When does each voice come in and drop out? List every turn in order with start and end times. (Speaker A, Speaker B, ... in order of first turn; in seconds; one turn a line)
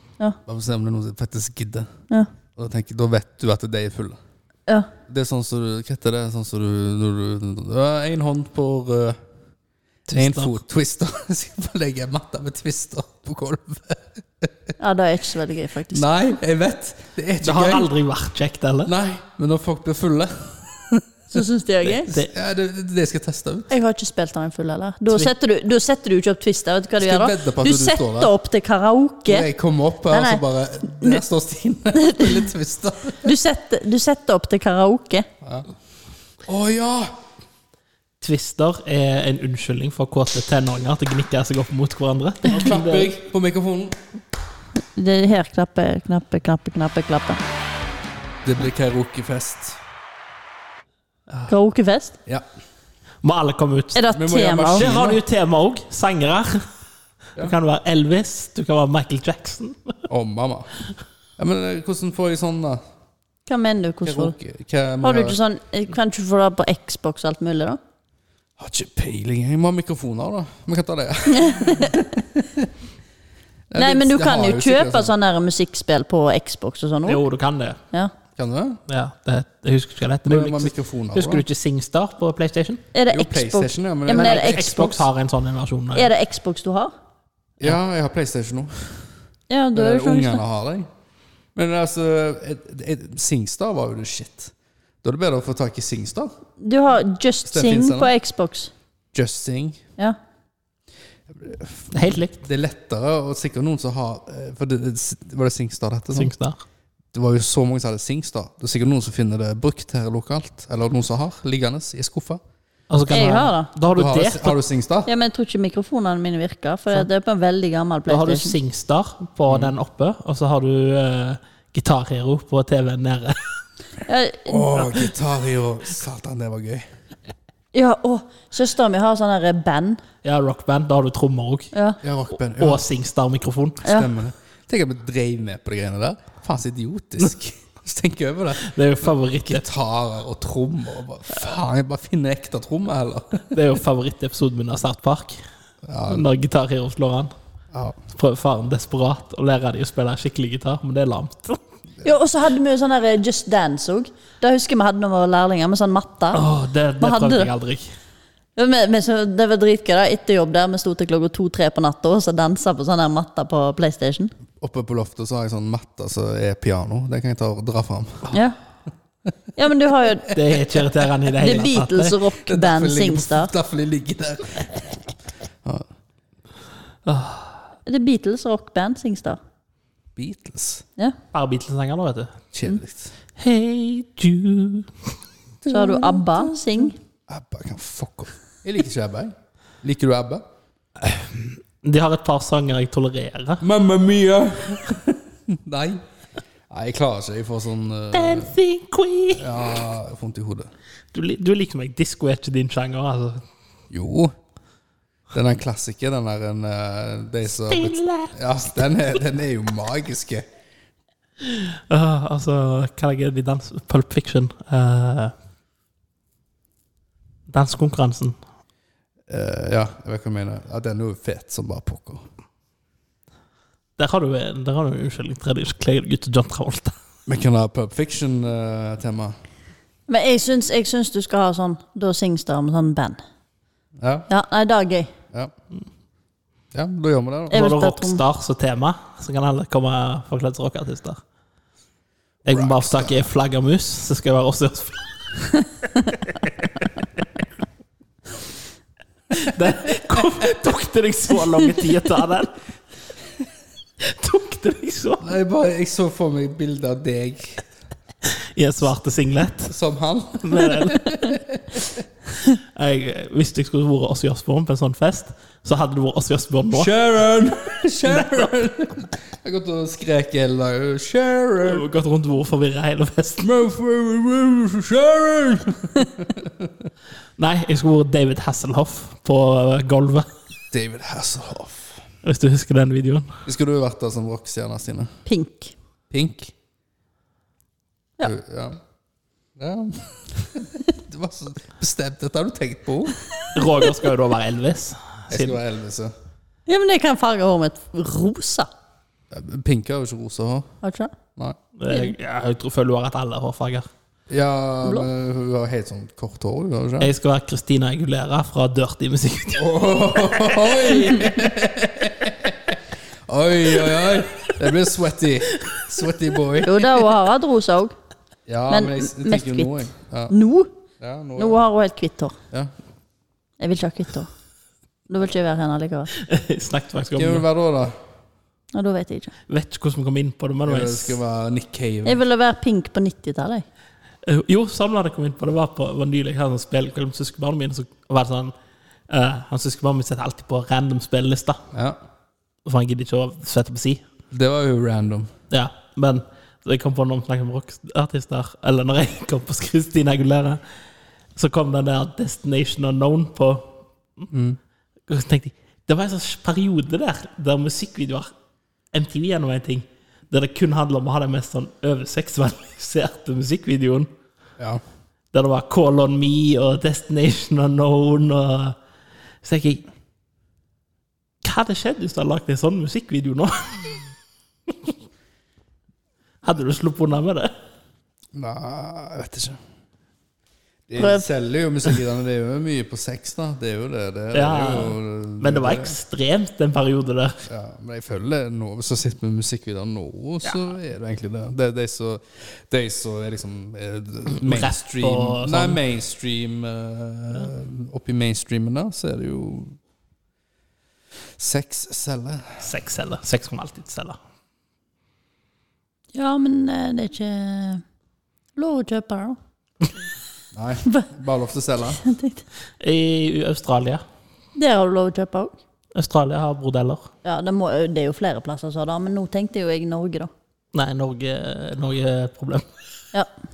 Speaker A: 0.5-1.9
Speaker A: 2.5-4.2
Speaker A: 5.1-9.2
Speaker B: 10.1-10.5
Speaker A: 10.1-14.7
Speaker C: 14.8-16.1
Speaker A: 15.9-17.9
Speaker B: 17.4-18.9
Speaker A: 18.8-21.4
Speaker C: 21.3-22.1
Speaker A: 22.1-23.7
Speaker C: 23.7-29.5
Speaker A: 27.0-28.3
Speaker A: 29.3-33.3
Speaker C: 30.1-31.2
Speaker C: 31.9-32.5
Speaker C: 33.2-35.3
Speaker A: 35.4-35.7
Speaker A: 36.5-37.1
Speaker B: 38.2-43.1
Speaker A: 42.5-44.0
Speaker C: 44.9-47.4
Speaker A: 48.4-49.8
Speaker C: 51.5-52.2
Speaker B: 53.2-54.0
Speaker C: 53.9-54.9
Speaker A: 54.1-55.2
Speaker B: 54.7-56.6
Speaker B: 57.4-59.9
Speaker A: 60.1-60.7
Speaker A: 61.4-62.8
Speaker C: 63.5-64.3
Speaker A: 64.0-65.4
Speaker C: 65.0-67.8
Speaker A: 68.6-72.7
Speaker C: 71.3-72.0
Speaker A: 73.7-75.1
Speaker C: 73.8-77.2
Speaker B: 77.0-77.8
Speaker A: 78.3-78.8
Speaker B: 78.9-82.8
Speaker A: 80.2-81.4
Speaker C: 82.9-85.0
Speaker A: 83.1-84.7
Speaker B: 84.1-86.1
Speaker C: 85.9-86.9
Speaker A: 87.6-89.1
Speaker C: 89.5-90.4
Speaker A: 89.7-90.9
Speaker A: 91.5-96.3
Speaker C: 96.6-98.7
Speaker A: 97.5-98.1
Speaker A: 99.1-99.8
Speaker A: 101.3-106.3
Speaker B: 101.9-102.4
Speaker B: 106.1-106.6
Speaker A: 107.1-112.4
Speaker B: 112.9-114.6
Speaker C: 113.1-113.7
Speaker A: 113.9-115.1
Speaker C: 115.0-118.5
Speaker B: 118.1-123.4
Speaker A: 119.5-119.7
Speaker C: 124.0-125.1
Speaker A: 124.5-126.8
Speaker C: 127.7-130.0
Speaker B: 130.2-131.7
Speaker C: 131.7-132.0
Speaker A: 132.0-132.8
Speaker B: 132.5-133.9
Speaker C: 133.8-134.1
Speaker A: 133.8-138.7
Speaker B: 138.6-139.7
Speaker A: 139.4-143.5
Speaker B: 143.5-145.4
Speaker A: 145.8-146.2
Speaker B: 146.1-147.3
Speaker A: 147.7-148.0
Speaker B: 148.1-151.6
Speaker C: 152.0-156.4
Speaker B: 156.3-157.9
Speaker C: 157.0-157.5
Speaker C: 158.6-164.3
Speaker A: 164.6-168.3
Speaker C: 168.3-168.6
Speaker C: 169.6-170.4
Speaker B: 170.3-172.2
Speaker C: 171.4-173.5
Speaker A: 172.4-175.0
Speaker B: 177.1-177.6
Speaker C: 177.8-179.4
Speaker A: 180.2-180.8
Speaker B: 181.3-182.3
Speaker A: 182.5-183.1
Speaker B: 183.4-184.9
Speaker A: 185.6-186.5
Speaker C: 185.7-186.9
Speaker A: 187.3-190.4
Speaker B: 191.1-193.6
Speaker A: 193.6-196.0
Speaker A: 196.7-198.5
Speaker B: 198.1-199.6
Speaker A: 199.3-200.7
Speaker B: 201.1-203.4
Speaker A: 203.9-204.3
Speaker A: 205.3-210.5
Speaker B: 207.6-208.3
Speaker B: 211.4-215.3
Speaker B: 217.5-218.3
Speaker A: 219.3-222.2
Speaker B: 224.0-226.9
Speaker A: 227.2-229.3
Speaker C: 230.1-233.2
Speaker A: 234.0-234.3
Speaker C: 234.3-235.1
Speaker A: 236.7-237.6
Speaker C: 237.5-238.2
Speaker B: 237.5-241.2
Speaker A: 242.4-243.2
Speaker B: 242.4-245.1
Speaker B: 246.1-246.8
Speaker B: 249.3-252.6
Speaker B: 254.0-255.3
Speaker A: 255.2-257.6
Speaker B: 258.2-259.8
Speaker A: 259.7-262.0
Speaker B: 260.4-261.2
Speaker B: 262.4-266.9
Speaker A: 266.7-271.8
Speaker B: 268.1-268.5
Speaker B: 271.6-273.5
Speaker A: 273.4-276.9
Speaker B: 277.4-280.3
Speaker A: 280.7-282.0
Speaker B: 282.2-283.4
Speaker A: 283.4-285.1
Speaker C: 285.2-285.7
Speaker A: 286.1-286.5
Speaker A: 288.2-288.8
Speaker A: 289.6-293.2
Speaker B: 293.5-295.6
Speaker A: 295.3-296.1
Speaker C: 296.7-298.7
Speaker A: 299.3-300.7
Speaker C: 300.8-301.1
Speaker B: 301.8-303.9
Speaker A: 304.3-307.1
Speaker B: 307.0-309.7
Speaker A: 309.5-316.9
Speaker C: 316.6-317.9
Speaker A: 318.5-320.3
Speaker C: 318.7-320.7
Speaker A: 321.0-321.6
Speaker C: 321.4-322.4
Speaker C: 323.6-324.3
Speaker C: 325.1-326.1
Speaker B: 326.1-327.4
Speaker A: 327.1-327.9
Speaker C: 328.7-329.3
Speaker B: 329.5-331.2
Speaker A: 330.6-332.2
Speaker C: 332.0-333.6
Speaker B: 334.2-338.5
Speaker B: 339.1-341.6
Speaker A: 341.7-342.0
Speaker B: 342.6-344.0
Speaker A: 344.3-345.3
Speaker B: 345.5-350.6
Speaker B: 351.4-354.2
Speaker A: 354.3-354.6
Speaker B: 355.1-358.3
Speaker B: 358.9-364.1
Speaker B: 365.3-368.8
Speaker B: 369.4-369.9
Speaker B: 371.4-374.1
Speaker B: 376.4-377.5
Speaker A: 378.3-379.6
Speaker A: 380.9-385.9
Speaker C: 381.0-381.2
Speaker B: 384.3-387.4
Speaker A: 387.5-399.8
Speaker B: 394.3-395.8
Speaker A: 401.4-402.6
Speaker B: 402.6-404.2
Speaker C: 406.1-407.8
Speaker C: 408.6-409.4
Speaker A: 410.5-412.0
Speaker C: 412.0-412.4
Speaker B: 412.8-414.0
Speaker C: 414.6-415.5
Speaker B: 415.9-417.1
Speaker C: 417.2-420.3
Speaker B: 420.7-422.7